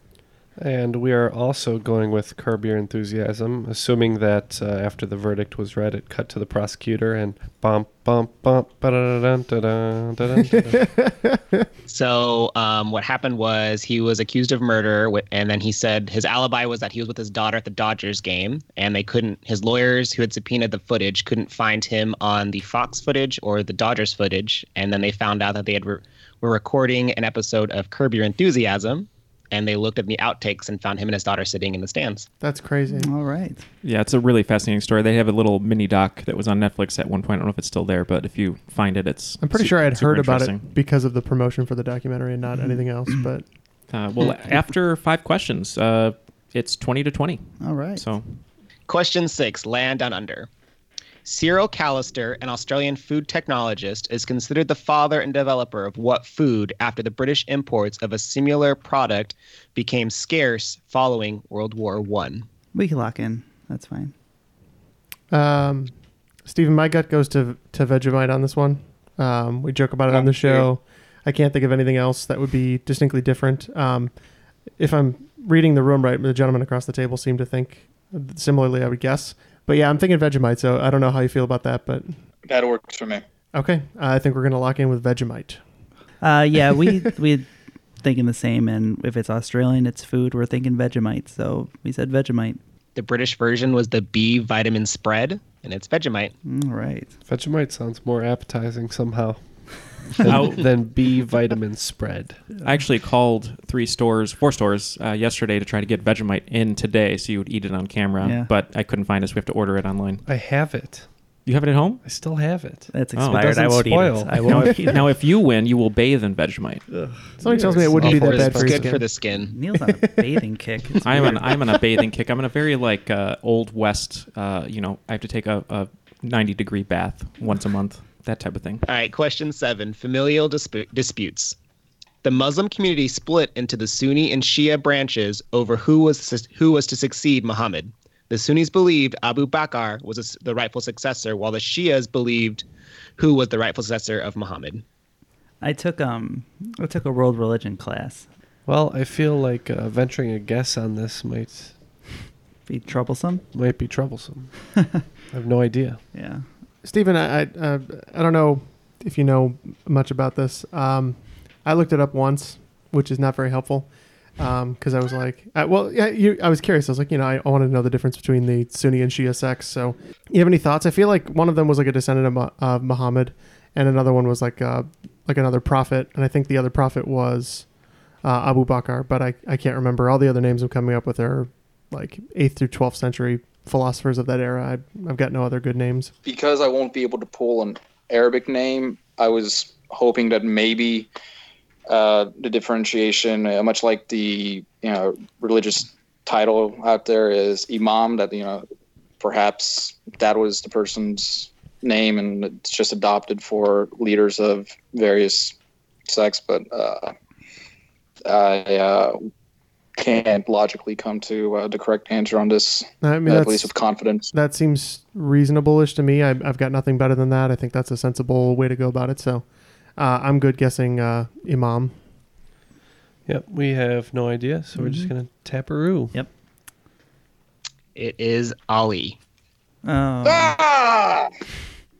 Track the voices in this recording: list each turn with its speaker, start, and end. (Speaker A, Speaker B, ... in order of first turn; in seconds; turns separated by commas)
Speaker A: 0.6-10.9, Speaker B: 10.6-11.7, Speaker C: 11.9-32.3, Speaker B: 32.4-33.1, Speaker D: 33.0-33.6, Speaker E: 33.8-40.7, Speaker B: 39.4-43.5, Speaker D: 42.6-43.1, Speaker E: 43.9-48.4, Speaker D: 47.6-48.0, Speaker C: 48.9-50.5, Speaker C: 51.2-62.5, Speaker D: 62.7-64.1, Speaker B: 65.3-65.9, Speaker B: 66.5-74.1, Speaker F: 70.1-70.7, Speaker B: 74.8-82.2, Speaker F: 82.5-83.2, Speaker B: 83.5-85.6, Speaker D: 86.2-87.5, Speaker D: 88.0-92.6, Speaker C: 93.0-96.3, Speaker D: 96.5-97.1, Speaker A: 97.3-102.4, Speaker E: 100.2-100.9, Speaker E: 102.6-110.2, Speaker D: 108.2-108.5, Speaker A: 110.3-111.1, Speaker E: 111.5-112.0, Speaker A: 112.0-114.7, Speaker D: 112.9-115.0, Speaker E: 113.2-113.5, Speaker E: 114.5-116.8, Speaker D: 116.9-121.4, Speaker B: 117.4-119.0, Speaker A: 117.5-119.0, Speaker C: 118.0-119.5, Speaker E: 121.0-128.8, Speaker C: 128.9-131.6, Speaker C: 132.2-142.7, Speaker C: 143.2-144.8, Speaker D: 145.6-148.3, Speaker A: 148.7-151.8, Speaker D: 152.7-153.4, Speaker A: 153.5-154.8, Speaker A: 155.3-156.0, Speaker D: 156.1-156.4, Speaker B: 156.8-177.7, Speaker B: 178.2-186.1, Speaker F: 186.2-191.1, Speaker F: 191.9-198.6, Speaker F: 199.2-205.6, Speaker F: 206.1-207.1, Speaker F: 208.3-209.3, Speaker F: 210.0-214.3, Speaker B: 213.0-213.7, Speaker B: 214.3-222.0, Speaker A: 223.3-226.2, Speaker D: 224.8-225.1, Speaker C: 227.9-229.2, Speaker D: 229.8-230.6, Speaker F: 230.2-231.3